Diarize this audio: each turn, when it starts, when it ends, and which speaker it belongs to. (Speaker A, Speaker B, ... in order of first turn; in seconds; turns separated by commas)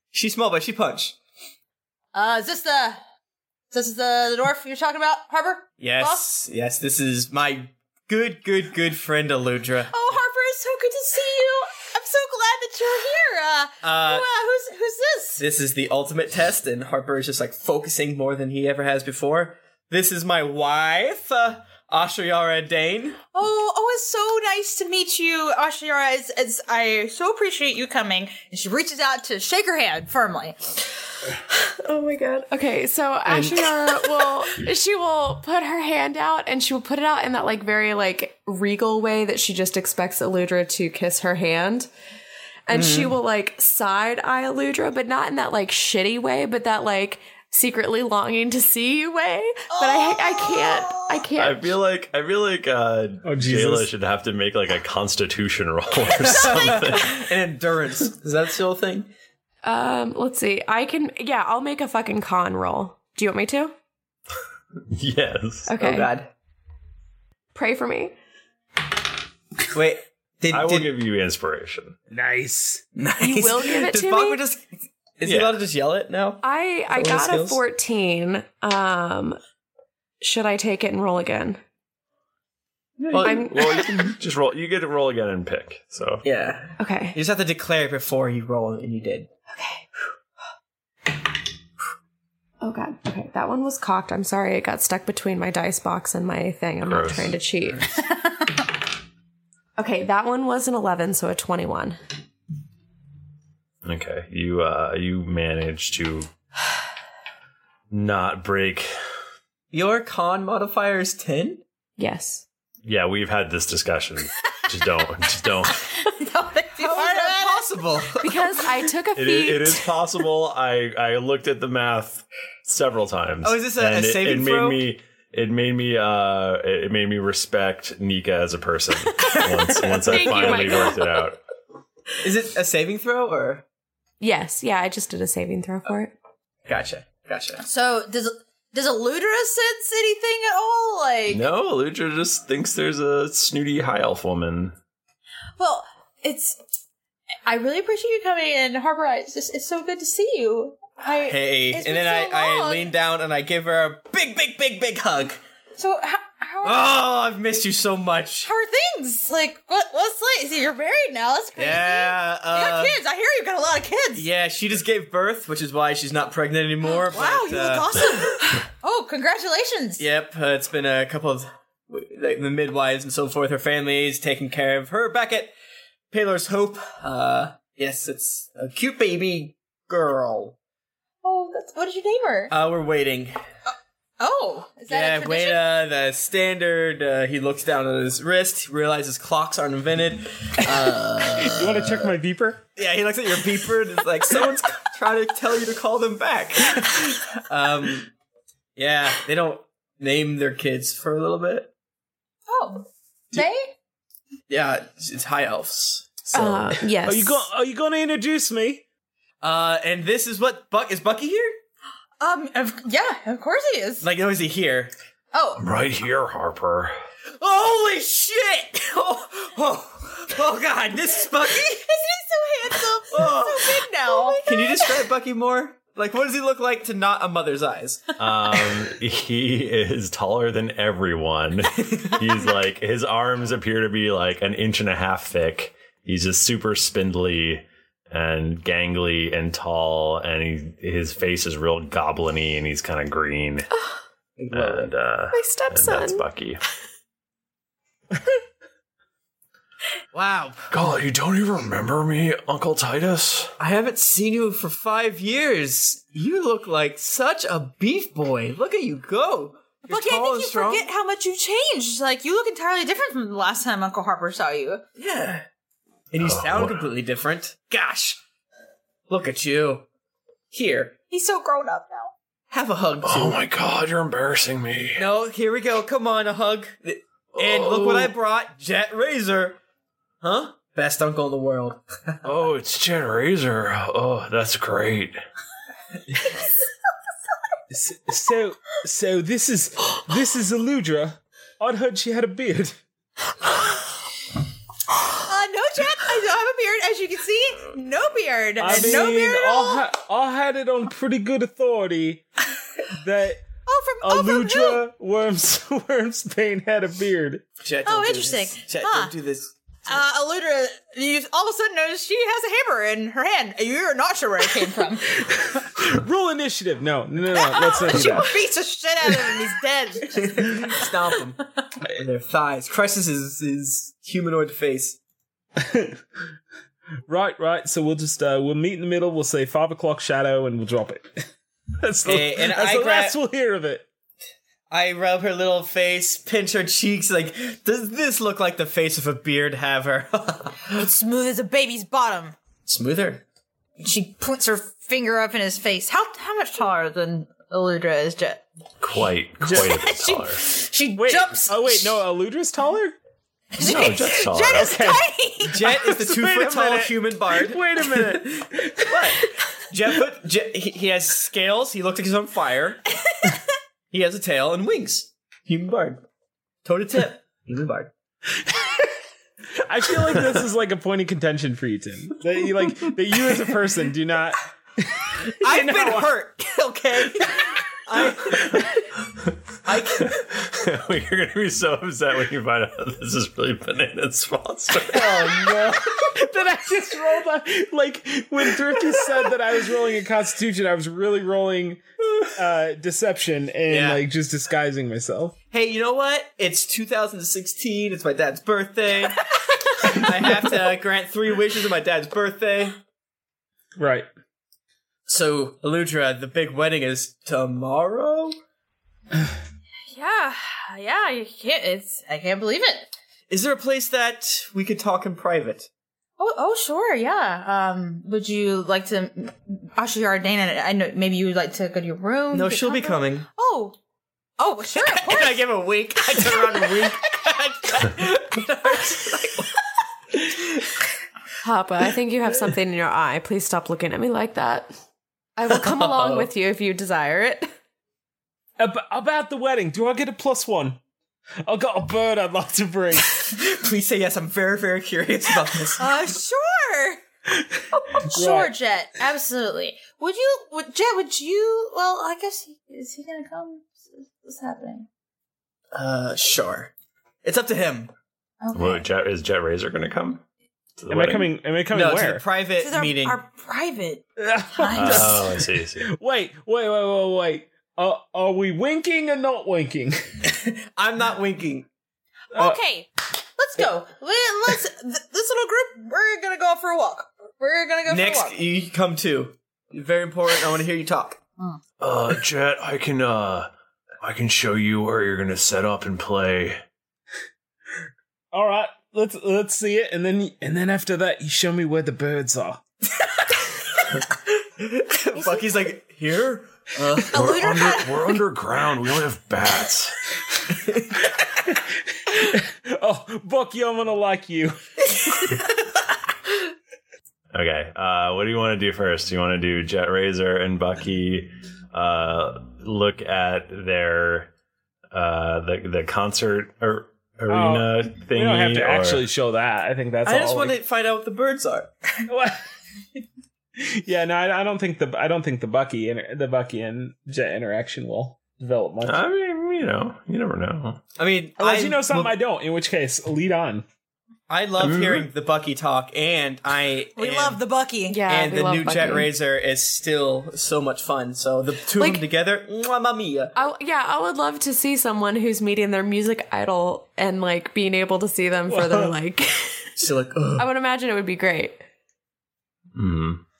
Speaker A: 0.1-1.1, Speaker B: 2.1-3.0, Speaker B: 3.7-6.2, Speaker A: 5.8-9.9, Speaker B: 9.9-15.4, Speaker A: 13.8-14.3, Speaker A: 15.4-23.2, Speaker B: 23.3-30.6, Speaker C: 31.7-41.9, Speaker C: 42.7-51.8, Speaker A: 42.7-43.1, Speaker B: 49.7-51.2, Speaker D: 51.3-57.3, Speaker E: 53.2-53.9, Speaker A: 56.2-59.1, Speaker C: 59.6-63.7, Speaker D: 64.9-65.7, Speaker C: 65.7-66.1, Speaker A: 65.8-66.3, Speaker C: 67.5-68.1, Speaker A: 69.7-70.9, Speaker D: 70.5-72.0, Speaker E: 72.1-72.8, Speaker A: 73.0-74.7, Speaker C: 73.2-74.4, Speaker A: 75.2-77.6, Speaker D: 75.2-75.6, Speaker C: 76.4-79.4, Speaker C: 80.2-81.6, Speaker A: 83.1-83.8, Speaker D: 83.1-86.2, Speaker C: 83.2-83.9, Speaker A: 86.2-89.3, Speaker C: 86.8-87.2, Speaker C: 89.5-89.8, Speaker C: 92.6-97.9, Speaker D: 96.8-97.3, Speaker C: 99.8-102.0, Speaker D: 103.8-106.3, Speaker D: 107.9-108.9, Speaker A: 109.7-111.6, Speaker C: 112.0-112.4, Speaker D: 112.8-115.8, Speaker B: 116.0-117.7, Speaker A: 116.8-118.4, Speaker C: 118.2-119.9, Speaker D: 119.1-131.4, Speaker A: 123.4-124.8, Speaker C: 129.2-131.2, Speaker A: 132.2-133.6, Speaker C: 134.2-136.1, Speaker A: 136.7-137.6, Speaker B: 137.6-141.4, Speaker D: 141.3-144.7, Speaker B: 145.6-146.6, Speaker B: 147.4-152.9, Speaker A: 151.2-155.4, Speaker B: 155.8-157.0, Speaker A: 156.6-158.5, Speaker B: 158.4-164.3, Speaker A: 161.6-163.0, Speaker A: 164.1-168.0, Speaker B: 166.9-170.0, Speaker A: 170.0-175.5, Speaker A: 176.1-180.6, Speaker B: 181.2-182.5, Speaker A: 182.5-183.3, Speaker B: 184.2-185.7, Speaker A: 184.9-192.1, Speaker E: 191.2-192.6, Speaker A: 192.8-198.1, Speaker A: 198.8-201.7, Speaker B: 202.5-203.7, Speaker A: 204.5-206.7, Speaker C: 206.3-207.4, Speaker E: 207.0-208.8, Speaker A: 209.4-211.6, Speaker B: 212.2-214.1, Speaker A: 214.0-214.9, Speaker B: 215.3-215.6, Speaker D: 215.6-216.9, Speaker A: 217.4-221.8, Speaker B: 221.6-225.0, Speaker A: 223.1-228.7, Speaker D: 228.2-243.7, Speaker C: 243.7-244.0, Speaker A: 244.4-244.9, Speaker D: 244.5-246.6, Speaker C: 245.3-246.2, Speaker A: 250.1-250.7, Speaker D: 250.7-253.5, Speaker A: 253.6-260.9, Speaker B: 259.9-264.8, Speaker A: 265.0-265.4, Speaker A: 266.1-268.2, Speaker D: 266.2-266.9, Speaker A: 269.1-269.9, Speaker A: 270.5-270.9, Speaker B: 271.1-272.1, Speaker A: 272.5-273.4, Speaker D: 273.0-275.0, Speaker A: 275.0-279.6, Speaker D: 277.3-278.1, Speaker A: 280.2-282.2, Speaker D: 282.2-285.2, Speaker E: 287.7-292.8, Speaker B: 295.2-299.9, Speaker E: 298.6-302.2, Speaker A: 298.7-299.0, Speaker E: 303.0-303.5, Speaker B: 303.6-304.8, Speaker E: 304.0-307.4, Speaker A: 307.6-309.5, Speaker B: 307.8-309.1, Speaker B: 309.9-315.1, Speaker E: 315.2-318.4, Speaker B: 317.3-320.6, Speaker A: 320.1-321.4, Speaker A: 321.9-325.0, Speaker E: 325.6-326.0, Speaker E: 327.1-331.2, Speaker E: 331.8-333.9, Speaker A: 332.0-333.2, Speaker A: 334.7-340.8, Speaker B: 340.7-342.4, Speaker A: 342.6-343.2, Speaker B: 343.8-348.4, Speaker D: 348.8-350.4, Speaker E: 349.4-349.8, Speaker B: 349.6-352.0, Speaker E: 350.9-352.9, Speaker D: 353.6-354.8, Speaker B: 353.6-355.6, Speaker E: 354.5-359.2, Speaker A: 355.5-362.8, Speaker B: 363.1-363.3, Speaker A: 363.9-366.0, Speaker A: 366.6-367.9, Speaker E: 368.4-368.7, Speaker E: 369.6-376.2, Speaker A: 375.4-378.5, Speaker A: 379.6-380.1, Speaker D: 380.0-385.4, Speaker A: 384.9-385.7, Speaker E: 385.1-391.8, Speaker E: 392.4-395.3, Speaker A: 393.7-394.0, Speaker A: 395.5-402.8, Speaker E: 403.8-404.1, Speaker A: 405.1-408.4, Speaker B: 409.9-412.9, Speaker A: 413.3-415.7, Speaker B: 416.2-423.8, Speaker A: 422.3-423.3, Speaker B: 424.4-425.4, Speaker A: 424.7-429.6, Speaker B: 426.2-426.9, Speaker A: 430.1-430.6, Speaker C: 431.4-434.7, Speaker C: 435.4-437.5, Speaker A: 435.5-436.3, Speaker E: 438.6-440.8, Speaker E: 441.4-443.4, Speaker A: 443.3-445.9, Speaker B: 445.8-447.0, Speaker E: 447.3-448.5, Speaker B: 447.9-454.9, Speaker A: 455.7-456.7, Speaker A: 457.2-457.9, Speaker B: 458.4-458.9, Speaker D: 458.5-460.2, Speaker D: 460.8-461.4, Speaker E: 460.9-462.2, Speaker A: 461.7-463.2, Speaker B: 462.6-465.2, Speaker E: 464.2-470.0, Speaker D: 464.7-465.9, Speaker A: 470.6-471.7, Speaker B: 472.3-478.4, Speaker E: 472.3-472.6, Speaker A: 477.9-481.2, Speaker D: 481.8-483.5, Speaker D: 484.0-486.6, Speaker E: 488.3-492.6, Speaker A: 494.6-497.1, Speaker B: 497.1-498.1, Speaker D: 497.1-499.9, Speaker E: 502.1-504.6, Speaker D: 507.3-514.3, Speaker D: 514.9-519.0, Speaker E: 517.3-520.6, Speaker A: 520.0-522.0, Speaker E: 522.1-522.4, Speaker E: 523.6-529.0, Speaker D: 528.8-530.8, Speaker A: 531.0-532.1, Speaker E: 531.4-533.6, Speaker A: 534.3-537.4, Speaker D: 534.6-535.1, Speaker B: 537.0-538.0, Speaker C: 537.9-539.1, Speaker A: 538.1-543.3, Speaker C: 541.8-542.0, Speaker C: 543.3-549.7, Speaker E: 548.5-548.9, Speaker A: 549.8-550.5, Speaker C: 550.4-551.6, Speaker D: 552.7-553.2